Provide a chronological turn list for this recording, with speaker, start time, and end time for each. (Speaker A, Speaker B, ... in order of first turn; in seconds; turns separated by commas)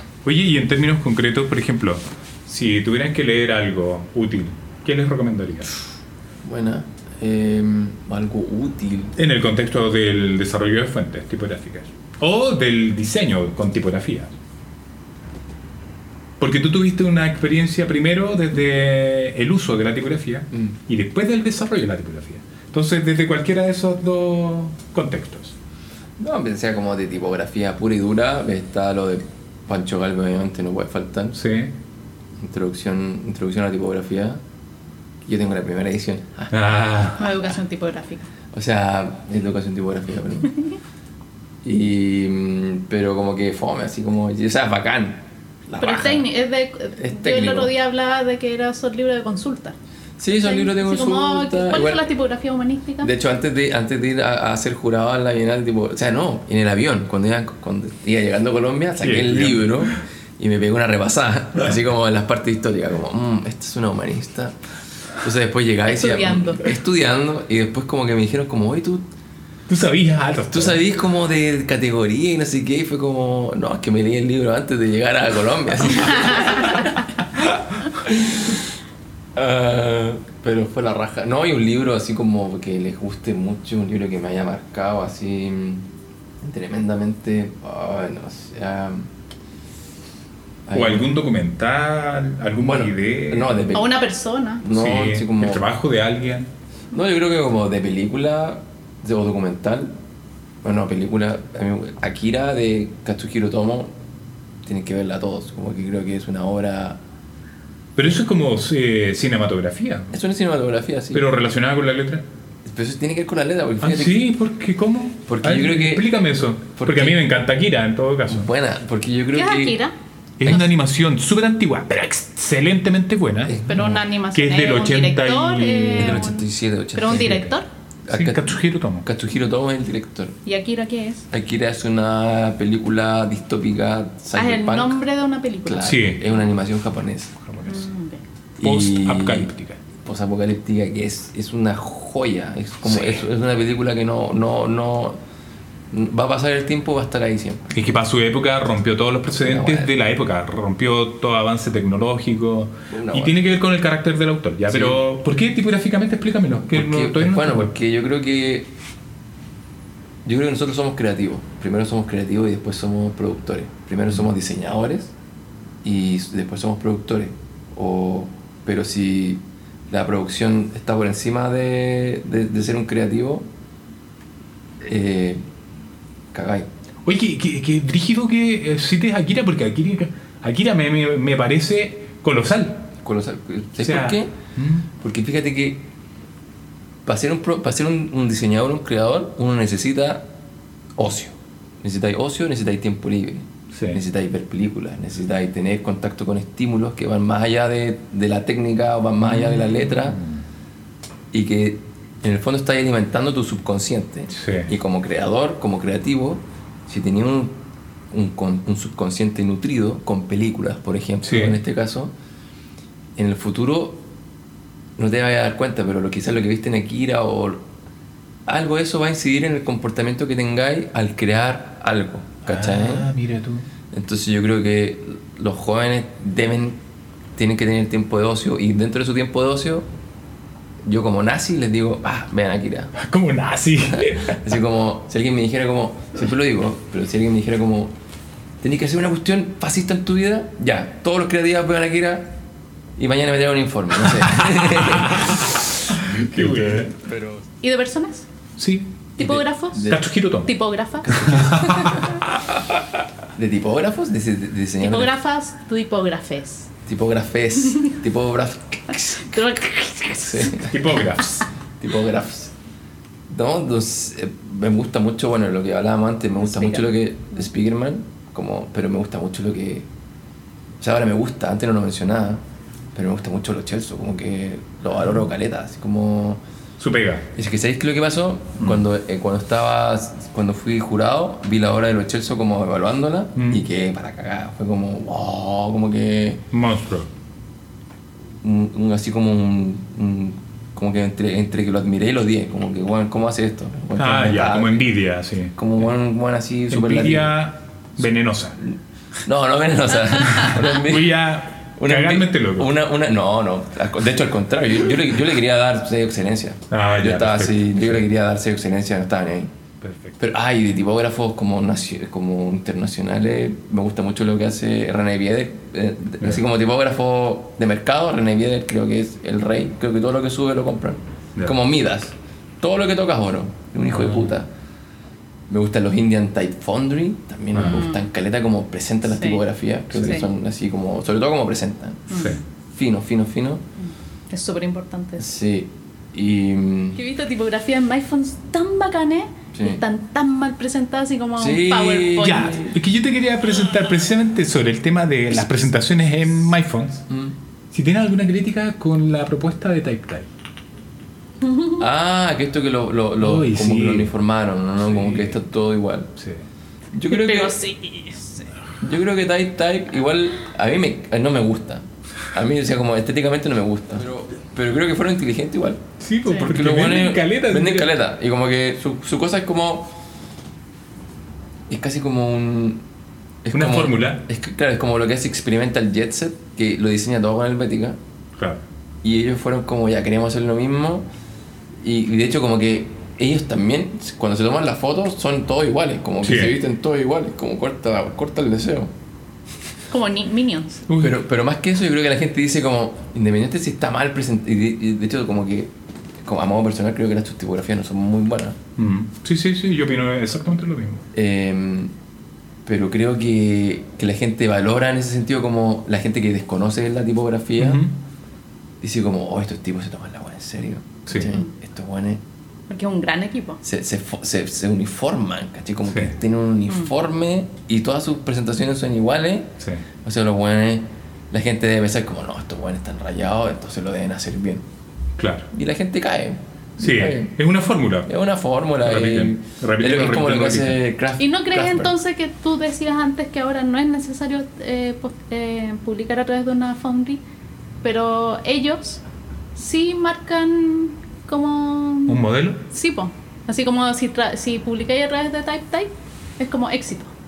Speaker A: 0.2-5.8, Speaker B: 6.4-9.1, Speaker A: 9.2-14.3, Speaker A: 16.4-25.5, Speaker B: 26.2-31.4, Speaker A: 31.3-31.7, Speaker B: 32.4-34.4, Speaker B: 35.2-36.5, Speaker A: 36.5-37.3, Speaker C: 37.2-38.3, Speaker B: 38.5-40.5, Speaker B: 41.6-46.3, Speaker C: 45.8-49.7, Speaker B: 47.0-47.7, Speaker B: 50.2-52.1, Speaker C: 50.4-53.1, Speaker B: 53.0-64.5, Speaker A: 59.0-60.0, Speaker B: 65.2-69.1, Speaker C: 65.9-66.7, Speaker A: 69.7-70.8, Speaker B: 70.5-78.7, Speaker C: 76.1-76.4, Speaker B: 79.3-85.9, Speaker B: 86.4-89.1, Speaker B: 90.7-91.1, Speaker A: 90.7-93.7, Speaker B: 92.6-93.9, Speaker C: 93.7-94.7, Speaker B: 94.6-95.6, Speaker A: 94.7-96.5, Speaker B: 96.9-99.9, Speaker B: 100.6-103.9, Speaker B: 104.6-107.0, Speaker A: 108.0-110.1, Speaker B: 110.1-111.3, Speaker A: 111.1-112.2, Speaker B: 112.6-114.2, Speaker A: 113.8-118.5, Speaker B: 115.2-116.1, Speaker B: 116.8-117.2, Speaker B: 118.3-119.8, Speaker C: 119.3-119.9, Speaker A: 120.4-126.3, Speaker B: 123.4-124.0, Speaker C: 123.7-127.7, Speaker B: 125.9-127.4, Speaker A: 127.1-127.5, Speaker B: 128.1-130.4, Speaker A: 128.1-129.1, Speaker C: 130.4-131.3, Speaker B: 131.3-135.0, Speaker C: 134.3-135.9, Speaker B: 135.6-137.3, Speaker A: 135.8-136.2, Speaker A: 137.4-137.8, Speaker C: 137.7-138.2, Speaker B: 138.6-145.2, Speaker A: 138.6-139.8, Speaker A: 142.9-143.2, Speaker B: 145.9-147.8, Speaker A: 147.7-157.7, Speaker B: 149.4-149.9, Speaker B: 152.9-153.3, Speaker B: 154.7-155.0, Speaker B: 156.7-158.7, Speaker B: 160.2-165.1, Speaker B: 165.8-173.5, Speaker B: 174.8-175.4, Speaker B: 176.3-176.7, Speaker A: 177.0-182.9, Speaker B: 183.0-184.3, Speaker A: 183.8-184.9, Speaker B: 184.9-185.9, Speaker B: 187.1-190.3, Speaker B: 190.9-200.2, Speaker A: 193.7-194.0, Speaker A: 199.3-200.4, Speaker B: 201.3-212.1, Speaker A: 204.3-204.7, Speaker A: 211.2-211.6, Speaker B: 213.2-214.1, Speaker B: 215.0-217.7, Speaker B: 218.5-223.1, Speaker A: 222.4-223.7, Speaker B: 223.9-226.8, Speaker B: 227.3-229.9, Speaker B: 230.8-232.9, Speaker A: 233.0-234.5, Speaker B: 233.9-237.9, Speaker B: 238.6-242.4, Speaker B: 243.0-247.4, Speaker A: 244.2-246.9, Speaker C: 247.6-248.3, Speaker A: 248.6-250.5, Speaker C: 249.2-252.0, Speaker B: 249.2-250.1, Speaker B: 251.0-252.1, Speaker A: 251.1-252.2, Speaker B: 253.3-255.1, Speaker C: 254.8-256.7, Speaker B: 256.9-259.4, Speaker C: 259.1-260.7, Speaker B: 260.2-261.0, Speaker A: 260.5-261.3, Speaker B: 261.8-262.5, Speaker B: 263.3-269.9, Speaker C: 266.4-266.9, Speaker B: 270.8-272.4, Speaker B: 272.9-276.4, Speaker A: 276.8-277.3, Speaker B: 277.3-286.4, Speaker A: 278.6-278.8, Speaker A: 283.4-283.6, Speaker A: 286.5-287.1, Speaker B: 288.4-294.9, Speaker A: 294.0-295.8, Speaker B: 295.6-297.4, Speaker A: 296.7-298.6, Speaker B: 298.6-301.2, Speaker A: 300.3-302.7, Speaker B: 301.8-309.5, Speaker A: 306.7-308.0, Speaker A: 309.8-310.2, Speaker B: 310.2-324.5, Speaker A: 323.9-324.3, Speaker B: 325.5-333.6, Speaker A: 327.5-327.8, Speaker C: 327.6-328.1, Speaker C: 329.1-329.4, Speaker C: 330.0-330.2, Speaker C: 332.1-332.4, Speaker A: 332.1-332.4, Speaker C: 333.8-335.3, Speaker B: 335.2-337.0, Speaker C: 336.9-342.7, Speaker B: 339.5-339.8, Speaker B: 341.4-342.8, Speaker A: 342.2-347.0, Speaker B: 347.1-347.4, Speaker A: 347.7-350.3, Speaker C: 351.4-351.8, Speaker B: 351.8-356.1, Speaker A: 353.2-354.1, Speaker A: 354.8-355.4, Speaker A: 356.2-356.4, Speaker B: 356.9-357.6, Speaker C: 357.1-358.5, Speaker B: 358.8-365.8, Speaker A: 366.0-367.9, Speaker B: 366.4-369.9, Speaker B: 371.7-372.8, Speaker B: 373.4-378.0, Speaker A: 373.5-374.2, Speaker B: 379.0-381.1, Speaker B: 381.8-388.9, Speaker A: 386.2-386.5, Speaker C: 389.9-390.9, Speaker A: 390.9-391.2, Speaker B: 391.0-395.7, Speaker B: 396.2-398.6, Speaker A: 398.8-401.0, Speaker B: 401.1-401.9, Speaker B: 402.6-407.8, Speaker A: 407.6-407.9, Speaker B: 408.8-412.2, Speaker A: 411.1-411.3, Speaker C: 412.7-413.6, Speaker B: 413.6-424.6, Speaker A: 425.2-425.5, Speaker B: 425.5-427.3, Speaker A: 426.8-428.1, Speaker B: 428.1-431.9, Speaker A: 428.8-430.8, Speaker C: 431.2-437.2, Speaker C: 437.8-439.0, Speaker C: 439.5-447.1, Speaker A: 442.1-442.6